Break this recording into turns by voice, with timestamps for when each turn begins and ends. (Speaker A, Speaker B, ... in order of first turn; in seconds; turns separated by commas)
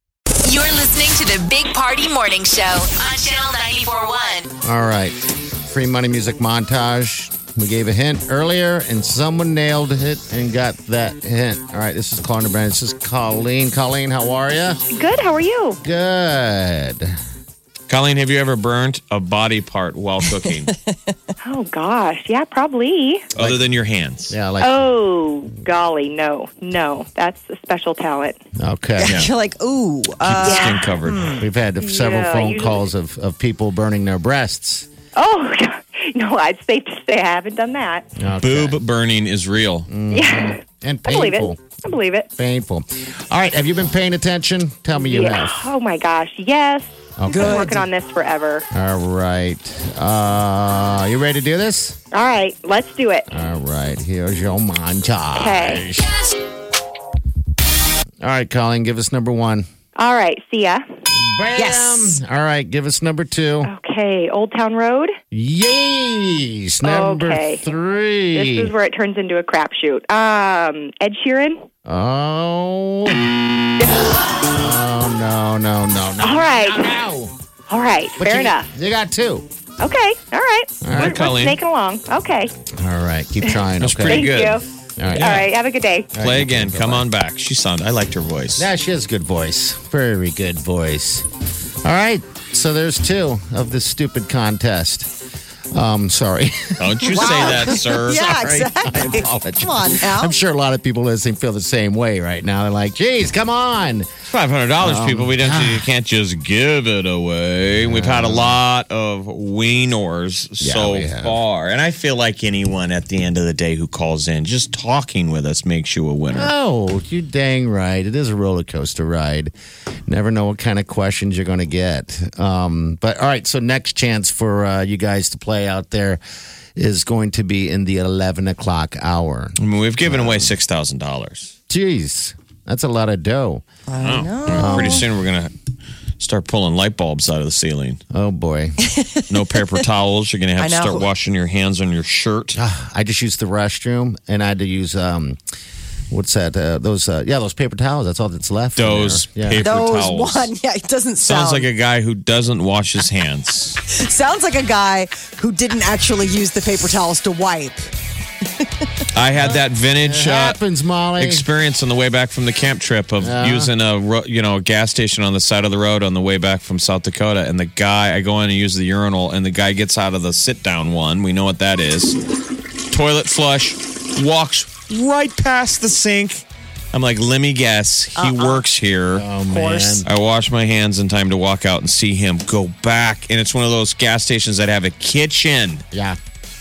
Speaker A: 0.4-4.5, Speaker B: 4.6-5.2, Speaker B: 5.7-14.8, Speaker C: 14.9-15.8, Speaker B: 15.8-17.1, Speaker D: 17.9-20.7, Speaker E: 20.4-21.1, Speaker C: 21.4-23.3, Speaker D: 23.3-24.4, Speaker B: 24.3-24.9, Speaker C: 24.6-28.4, Speaker B: 28.6-29.2, Speaker E: 29.0-31.4, Speaker D: 29.0-29.3, Speaker D: 30.2-31.4, Speaker C: 30.4-30.9, Speaker B: 31.4-34.9, Speaker C: 31.8-32.8, Speaker C: 35.1-38.1, Speaker B: 38.2-38.8, Speaker D: 38.4-39.9, Speaker B: 39.9-41.6, Speaker C: 40.1-42.3, Speaker B: 42.4-45.7, Speaker C: 45.0-48.6, Speaker B: 47.2-47.8, Speaker E: 47.3-47.8, Speaker B: 48.7-52.0, Speaker C: 52.1-53.3, Speaker B: 53.3-56.1, Speaker C: 55.4-55.9, Speaker B: 58.2-59.6, Speaker C: 60.0-60.8, Speaker B: 61.1-63.7, Speaker E: 61.5-62.2, Speaker C: 63.6-65.1, Speaker B: 65.3-68.7, Speaker C: 66.8-67.6, Speaker C: 68.3-71.6, Speaker B: 71.8-73.3, Speaker B: 74.4-77.3, Speaker C: 76.2-77.0, Speaker C: 77.7-78.7, Speaker B: 78.2-79.5, Speaker C: 79.8-82.5, Speaker B: 80.8-81.2, Speaker D: 80.9-81.6, Speaker B: 82.8-84.2, Speaker C: 83.4-86.1, Speaker D: 83.8-85.5, Speaker B: 85.0-85.3, Speaker B: 86.1-87.0, Speaker D: 86.2-88.7, Speaker B: 88.5-91.2, Speaker B: 91.8-95.1, Speaker B: 95.7-104.1, Speaker D: 96.8-98.5, Speaker E: 97.1-100.3, Speaker D: 104.3-116.5, Speaker B: 104.8-105.9, Speaker B: 107.8-108.6, Speaker B: 110.6-111.4, Speaker B: 116.3-119.5, Speaker B: 120.1-126.2, Speaker B: 126.8-130.5, Speaker D: 129.6-131.5, Speaker B: 131.7-133.6, Speaker E: 133.9-135.0, Speaker D: 134.0-135.5, Speaker B: 134.6-135.0, Speaker D: 136.2-138.0, Speaker B: 138.1-138.8, Speaker E: 138.8-139.2, Speaker D: 139.3-142.6, Speaker E: 140.6-141.1, Speaker B: 142.5-145.4, Speaker B: 146.1-149.7, Speaker D: 148.8-150.5, Speaker E: 149.6-151.7, Speaker D: 151.2-153.8, Speaker E: 153.8-157.9, Speaker D: 159.1-160.6, Speaker B: 159.4-161.4, Speaker D: 161.2-172.2, Speaker B: 163.2-163.7, Speaker D: 172.9-179.3, Speaker E: 178.2-178.6, Speaker B: 179.1-180.1, Speaker E: 179.5-180.1, Speaker D: 180.0-185.8, Speaker B: 185.9-186.2